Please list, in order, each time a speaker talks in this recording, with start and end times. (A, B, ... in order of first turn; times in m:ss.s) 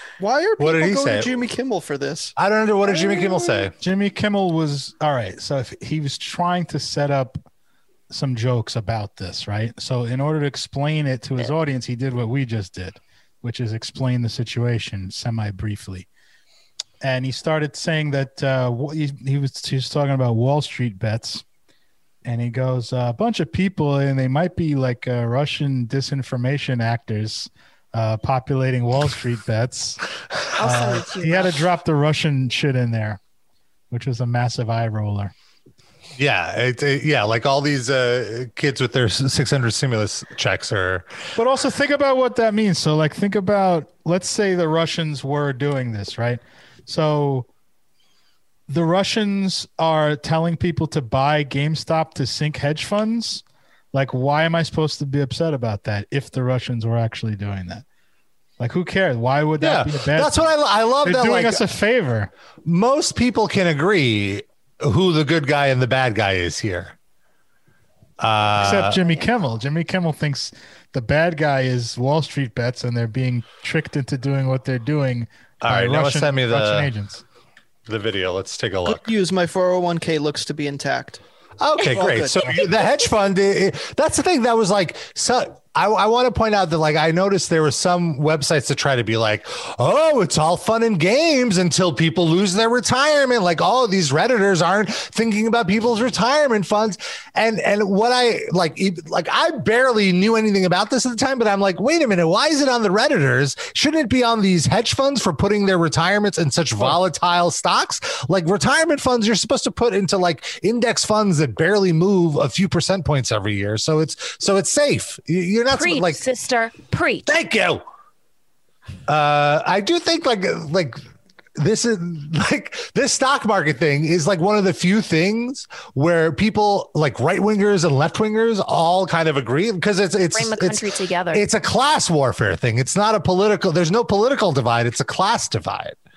0:00.2-0:02.3 A
0:00.6-0:01.4 B
0:02.4-0:03.7 B
0:02.9-0:03.3 A
0:03.8-0:07.4 C
0:08.1-0:16.1 C
0:17.0-0:21.4 C
0:22.2-0:30.0 C
0:30.6-0:31.6 D
0:30.6-0:33.2 C
0:33.9-0:35.3 C
0:36.2-0:41.1 B
0:41.3-0:47.5 C
0:48.7-0:57.8 C
0:58.6-1:02.3 C
0:59.6-1:01.7 B
1:02.6-1:06.9 B
1:08.2-1:09.0 B
1:08.6-1:17.2 C
1:15.6-1:16.9 B
1:17.9-1:19.1 B
1:18.8-1:21.2 A
1:21.6-1:56.2 B
1:21.9-1:22.6 A
1:55.7-1:57.3 D
1:57.2-1:57.8 B
1:59.1-2:01.0 B
2:01.6-2:16.0 B
2:10.3-2:11.4 D